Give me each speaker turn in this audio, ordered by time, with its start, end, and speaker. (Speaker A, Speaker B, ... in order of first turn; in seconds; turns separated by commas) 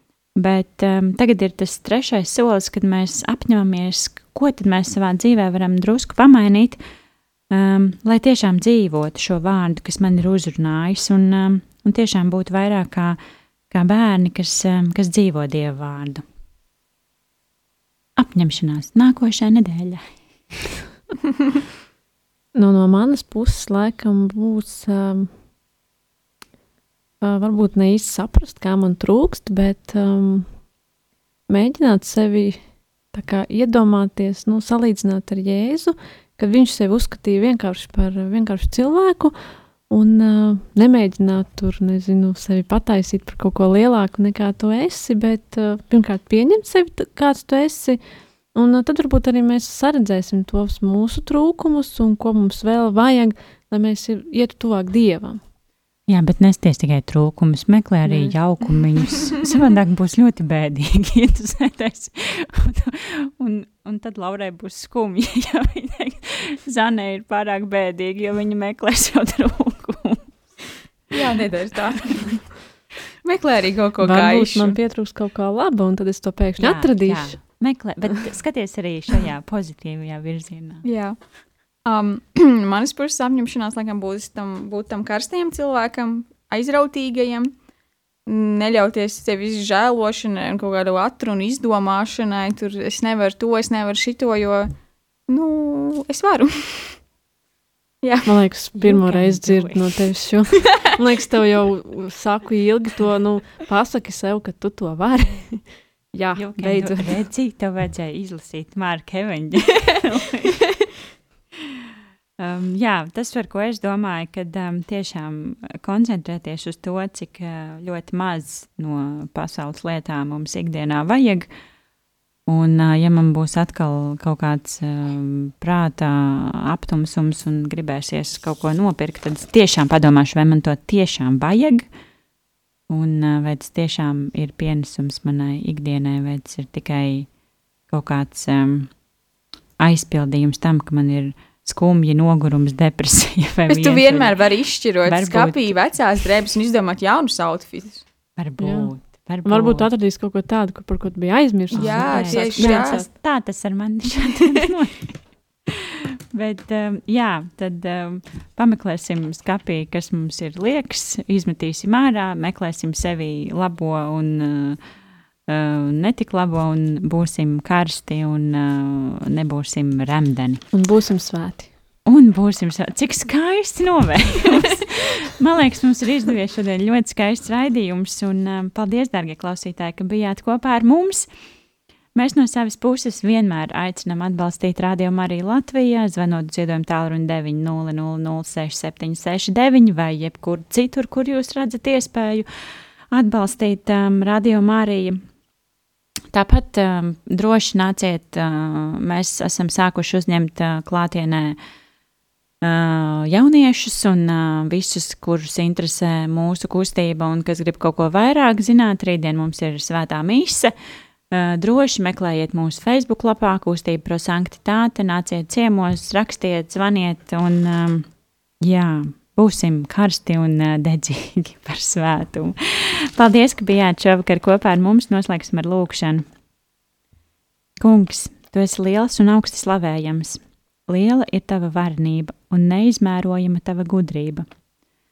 Speaker A: 0.3-6.8, Speaker A: 7.5-13.2, Speaker A: 13.7-16.2, Speaker A: 18.2-20.0, Speaker B: 22.6-25.3, Speaker B: 27.2-30.5, Speaker B: 31.5-32.6, Speaker B: 33.1-39.3, Speaker B: 39.9-48.0, Speaker B: 48.5-55.4, Speaker A: 56.1-70.3, Speaker B: 58.0-58.4, Speaker C: 71.1-72.5, Speaker C: 73.2-74.8, Speaker B: 74.0-77.4, Speaker A: 76.6-80.8, Speaker C: 80.8-81.2, Speaker C: 81.8-87.5, Speaker C: 88.3-94.7, Speaker C: 95.3-97.0, Speaker C: 98.0-98.4, Speaker B: 98.2-107.2, Speaker A: 98.8-99.8, Speaker A: 106.3-110.7, Speaker A: 112.4-121.5, Speaker A: 122.5-131.9, Speaker A: 132.9-137.3, Speaker A: 137.9-138.9, Speaker A: 139.8-144.4, Speaker C: 143.7-148.1, Speaker A: 145.0-145.7, Speaker A: 148.4-149.9, Speaker B: 148.6-148.9, Speaker B: 149.4-153.1, Speaker A: 151.7-155.1, Speaker C: 151.7-153.0, Speaker A: 155.8-164.8, Speaker A: 165.5-170.6, Speaker B: 170.7-171.7, Speaker A: 172.1-181.3, Speaker A: 182.2-192.5, Speaker A: 193.1-195.2, Speaker A: 196.3-201.6, Speaker A: 202.6-210.7, Speaker A: 211.3-218.1, Speaker A: 218.6-226.3, Speaker A: 227.8-234.5